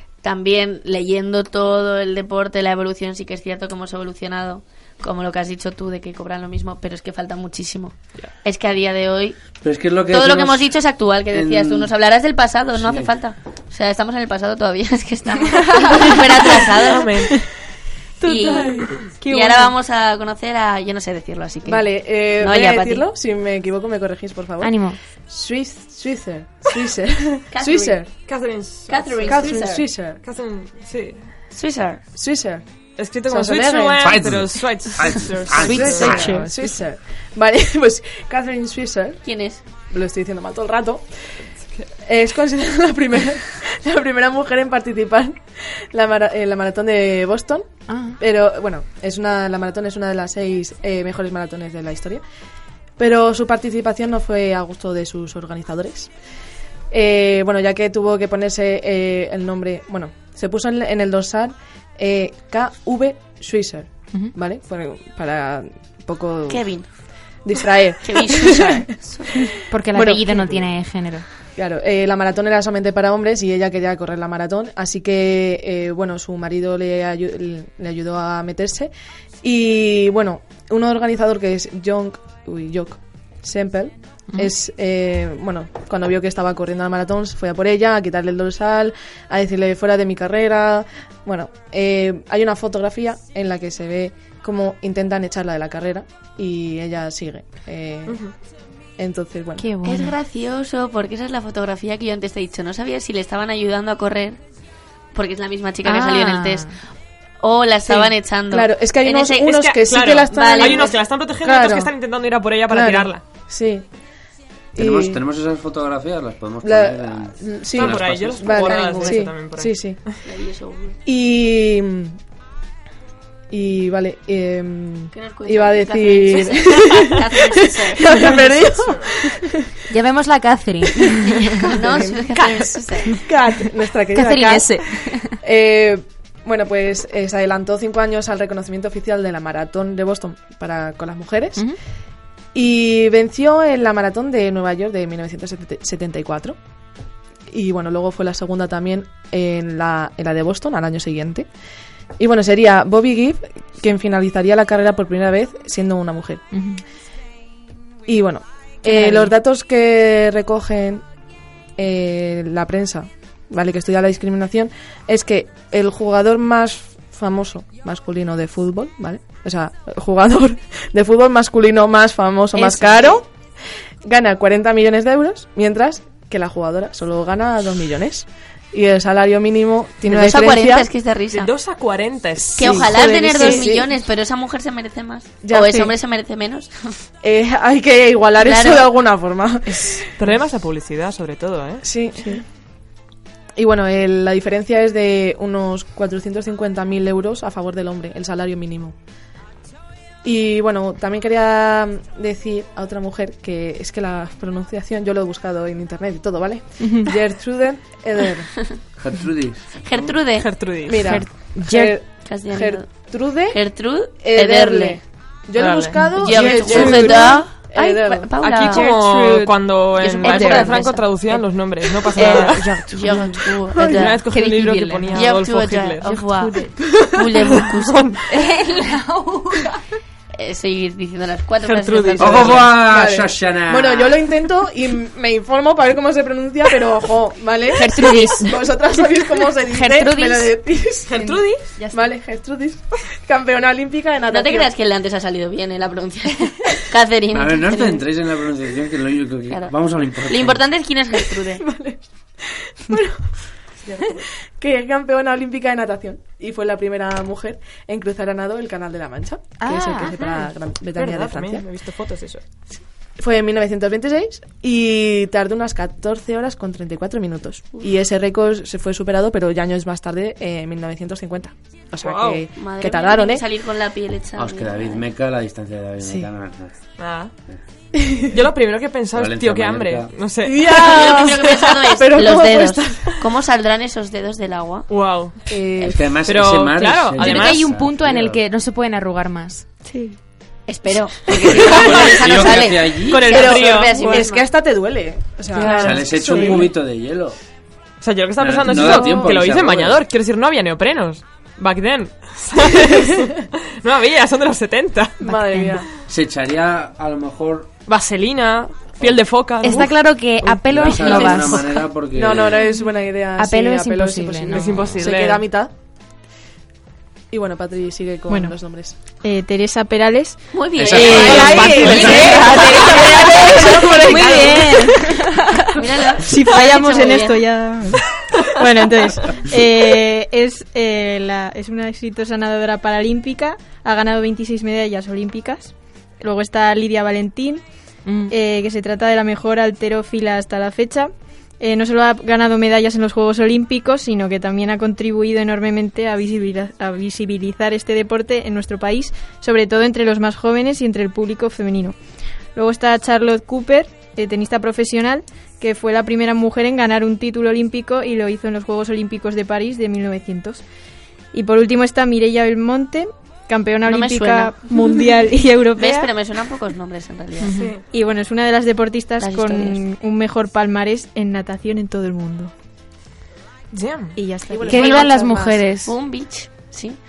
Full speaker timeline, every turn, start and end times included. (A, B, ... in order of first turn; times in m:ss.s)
0:00.2-0:09.4 A
0:09.6-0:10.7 B
0:10.1-0:17.1 A
0:11.3-0:11.9 B
0:12.8-0:13.1 B
0:16.9-0:17.4 C
0:18.2-0:23.0 A
0:19.0-0:19.7 D
0:21.6-0:28.1 E
0:24.6-0:25.0 F
0:27.5-0:28.0 A
0:28.2-0:31.2 C
0:28.9-0:29.8 A
0:29.2-0:30.2 E
0:31.5-0:32.0 A
0:32.1-0:32.6 E
0:33.0-0:36.5 C
0:33.3-0:34.0 E
0:34.0-0:36.3 B
0:35.6-0:36.6 F
0:35.7-0:39.2 E
0:39.2-0:39.6 A
0:39.8-0:41.4 E
0:42.0-0:52.2 E
0:47.9-0:48.2 F
0:53.0-0:56.1 E
0:56.9-1:06.7 E
1:06.5-1:06.8 A
1:07.4-1:10.7 E
1:08.0-1:09.3 A
1:09.7-1:11.2 F
1:11.6-1:18.9 E
1:19.4-1:38.3 E
1:39.0-1:39.8 E
1:39.6-1:40.1 F
1:39.8-1:44.4 A
1:45.1-1:46.7 A
1:45.8-1:46.7 F
1:47.4-1:49.5 A
1:47.8-1:51.9 E
1:49.4-1:53.2 C
1:50.3-1:51.0 A
1:52.7-1:53.8 E
1:54.7-1:55.2 E
1:54.8-1:58.7 B
1:56.6-2:00.0 E
1:57.7-2:00.1 C
1:58.8-1:59.1 A
2:00.2-2:01.0 A
2:01.0-2:02.1 E
2:03.5-2:09.5 E
2:05.1-2:08.3 A
2:09.9-2:11.7 F
2:11.7-2:13.2 A
2:11.8-2:12.6 E
2:13.1-2:21.6 E
2:14.1-2:15.4 F
2:22.5-2:26.6 E
2:27.5-2:31.5 E
2:32.2-2:36.4 E
2:36.5-2:36.8 F
2:38.1-2:41.0 E
2:38.8-2:39.3 F
2:41.8-2:53.3 E
2:52.5-2:53.2 A
2:54.0-3:00.9 E
3:00.1-3:01.5 A
3:01.3-3:03.7 C
3:02.4-3:03.9 E
3:02.6-3:06.7 A
3:05.4-3:05.9 E
3:07.2-3:10.1 E
3:08.4-3:08.9 A
3:10.2-3:11.8 C
3:11.8-3:12.4 E
3:13.6-3:18.9 E
3:20.2-3:28.5 E
3:26.8-3:27.1 F
3:29.0-3:30.1 B
3:29.8-3:30.7 A
3:30.4-3:31.1 C
3:30.8-3:38.4 E
3:30.9-3:32.0 F
3:32.1-3:35.0 A
3:35.6-3:37.4 C
3:36.2-3:38.9 A
3:36.6-3:37.4 F
3:38.3-3:42.8 C
3:38.6-3:41.6 F
3:39.9-3:41.1 A
3:42.1-3:43.4 F
3:42.2-3:44.2 A
3:43.7-3:44.1 E
3:43.8-3:46.4 C
3:44.3-3:45.3 F
3:45.1-3:48.1 A
3:46.0-3:47.0 F
3:47.6-3:48.2 C
3:48.3-3:49.8 F
3:50.3-3:52.7 A
3:51.6-3:52.8 C
3:52.2-3:54.1 B
3:52.7-4:04.7 E
3:57.7-3:58.6 F
3:59.6-4:00.6 F
4:01.1-4:01.7 C
4:01.8-4:02.1 F
4:04.3-4:08.0 A
4:07.3-4:10.6 B
4:09.5-4:11.6 A
4:11.6-4:12.0 E
4:12.8-4:13.1 E
4:13.9-4:14.2 C
4:14.6-4:21.6 E
4:19.6-4:20.4 F
4:20.9-4:22.4 C
4:23.2-4:33.4 E
4:32.0-4:32.4 C
4:32.5-4:35.0 A
4:34.4-4:36.8 B
4:36.0-4:36.3 E
4:37.0-4:37.3 C
4:37.9-4:38.3 E
4:38.3-4:41.7 C
4:39.1-4:40.1 B
4:40.4-4:43.2 E
4:40.8-4:44.9 A
4:44.9-4:45.4 C
4:45.5-4:46.1 E
4:45.8-4:48.4 B
4:46.2-4:47.7 C
4:47.2-4:49.6 F
4:49.8-4:50.2 D
4:50.7-4:54.4 A
4:51.6-4:53.3 B
4:52.2-4:54.4 C
4:53.3-4:56.7 E
4:55.6-4:55.9 D
4:55.6-4:56.6 C
4:55.6-4:55.9 F
4:55.8-4:57.4 B
4:58.0-5:05.2 C
4:58.4-5:00.0 B
5:05.2-5:05.8 F
5:05.2-5:05.9 E
5:06.1-5:07.7 B
5:07.9-5:10.0 C
5:09.6-5:11.8 F
5:10.4-5:12.6 B
5:12.1-5:15.7 E
5:13.4-5:14.7 F
5:14.5-5:15.5 C
5:17.3-5:19.0 E
5:18.3-5:18.6 D
5:19.2-5:25.2 D
5:20.5-5:22.3 A
5:20.8-5:21.1 B
5:20.8-5:23.4 C
5:20.9-5:24.8 E
5:21.2-5:25.8 F
5:25.7-5:27.4 A
5:26.2-5:28.0 D
5:26.5-5:27.4 F
5:28.5-5:37.6 D
5:38.0-5:38.3 F
5:38.3-5:52.0 D
5:52.5-6:00.6 D
6:01.3-6:06.1 D
6:03.8-6:04.7 A
6:05.8-6:07.7 A
6:07.4-6:07.7 F
6:07.5-6:07.8 C
6:07.6-6:12.5 D
6:09.2-6:09.8 A
6:13.7-6:14.2 C
6:14.2-6:14.7 D
6:14.5-6:15.7 E
6:14.6-6:15.9 F
6:14.7-6:15.2 A
6:15.7-6:17.0 A